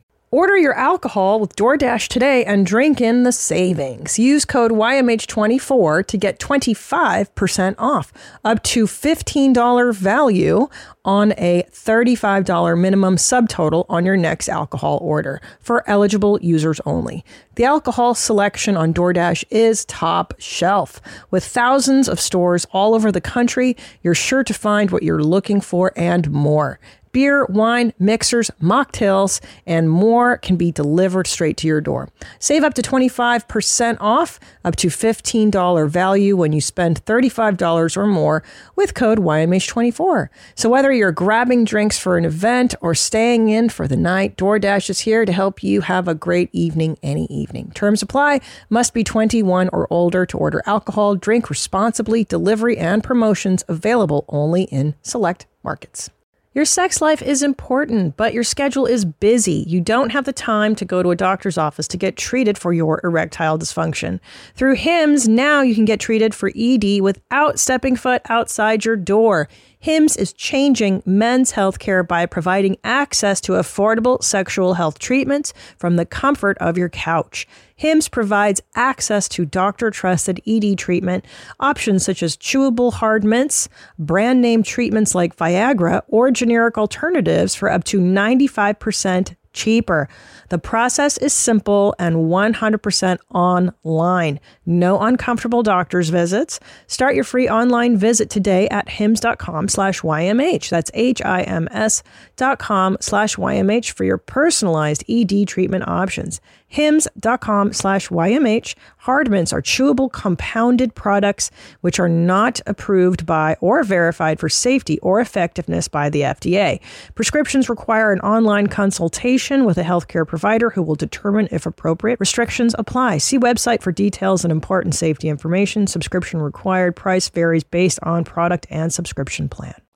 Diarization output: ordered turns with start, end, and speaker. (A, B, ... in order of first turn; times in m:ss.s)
0:00.3-2:09.8 A